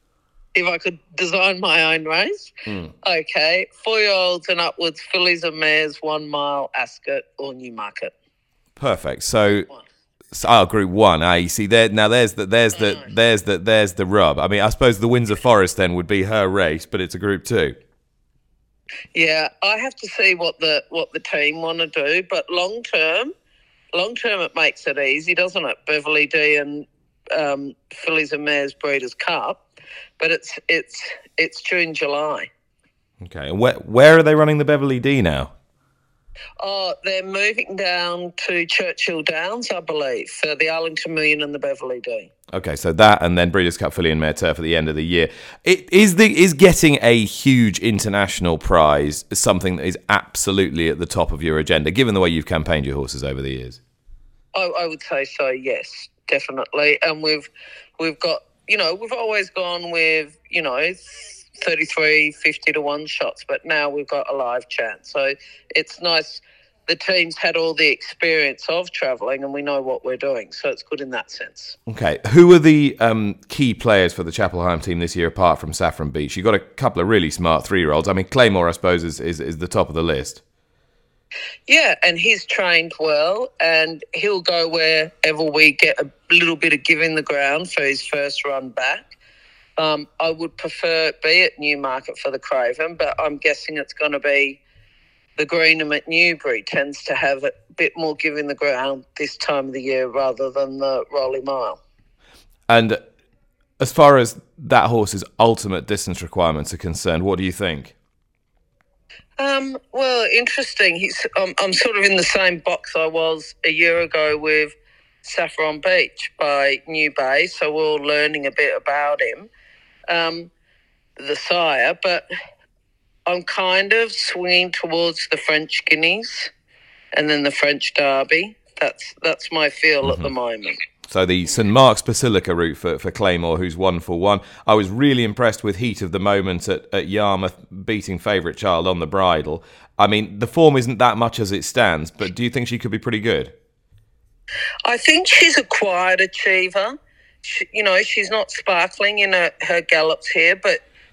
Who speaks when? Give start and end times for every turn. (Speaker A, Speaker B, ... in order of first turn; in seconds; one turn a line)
Speaker A: 0.6-2.5
Speaker A: 3.0-8.1
Speaker B: 8.8-9.7
Speaker B: 10.3-17.8
Speaker A: 19.1-23.3
Speaker A: 23.9-29.6
Speaker A: 30.2-32.5
Speaker B: 33.2-35.5
Speaker A: 36.6-42.3
Speaker B: 42.5-53.8
Speaker A: 54.5-71.8
Speaker B: 71.9-80.4
Speaker A: 81.7-89.1
Speaker A: 89.8-94.6
Speaker A: 95.4-101.8
Speaker B: 102.7-103.0
Speaker B: 103.8-107.9
Speaker A: 109.4-119.5
Speaker A: 120.1-120.5
Speaker A: 121.2-122.3
Speaker A: 123.3-126.5
Speaker A: 127.1-130.8
Speaker B: 131.1-143.5
Speaker A: 144.8-150.8